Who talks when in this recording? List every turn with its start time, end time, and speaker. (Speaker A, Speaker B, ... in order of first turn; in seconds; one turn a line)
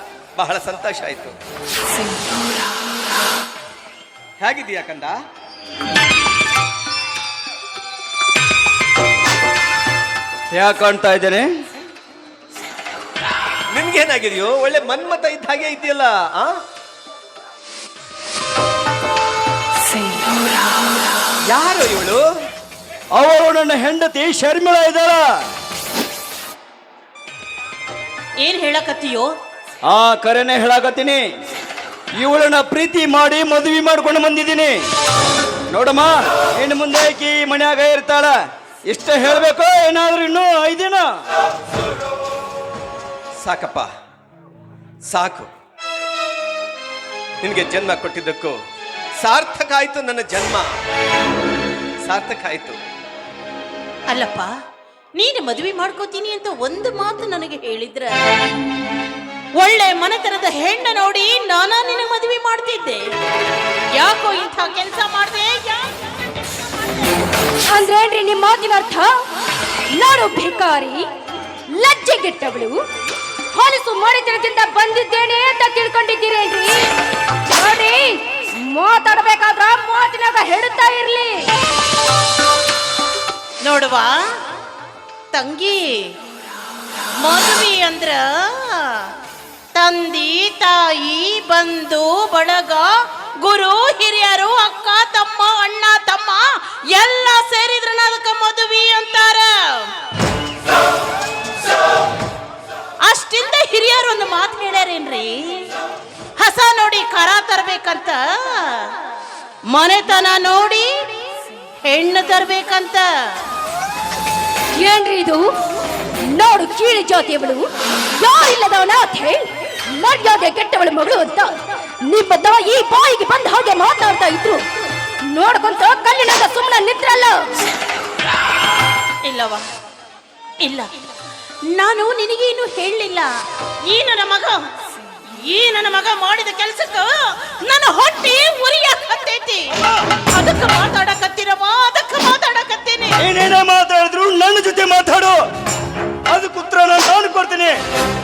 Speaker A: 0.4-1.4
Speaker A: 4.4-5.2
Speaker B: 10.5-11.5
Speaker A: 13.7-16.6
Speaker A: 21.5-22.2
Speaker B: 23.1-25.2
Speaker C: 28.4-29.3
Speaker B: 29.9-31.2
Speaker B: 32.2-34.8
Speaker B: 35.7-38.3
Speaker B: 38.9-41.1
Speaker A: 43.4-43.9
Speaker A: 45.1-45.5
Speaker A: 47.4-48.6
Speaker A: 49.2-50.7
Speaker A: 52.0-52.8
Speaker C: 54.1-54.5
Speaker C: 55.2-58.2
Speaker C: 59.6-63.0
Speaker C: 63.9-65.9
Speaker D: 67.7-69.1
Speaker D: 69.9-71.0
Speaker D: 71.7-72.8
Speaker D: 73.5-76.8
Speaker D: 77.5-81.5
Speaker C: 83.6-84.1
Speaker C: 85.3-86.1
Speaker C: 87.2-89.1
Speaker C: 89.8-99.9
Speaker C: 103.0-105.7
Speaker C: 106.4-109.0
Speaker C: 109.7-110.9
Speaker C: 111.8-113.0
Speaker D: 114.8-115.4
Speaker D: 116.2-117.7
Speaker D: 118.2-124.7
Speaker D: 125.3-127.5
Speaker C: 129.2-129.6
Speaker C: 130.6-130.9
Speaker C: 131.7-133.3
Speaker C: 133.8-134.7
Speaker C: 135.3-139.7
Speaker C: 140.3-143.2
Speaker B: 143.2-145.4
Speaker B: 146.3-147.7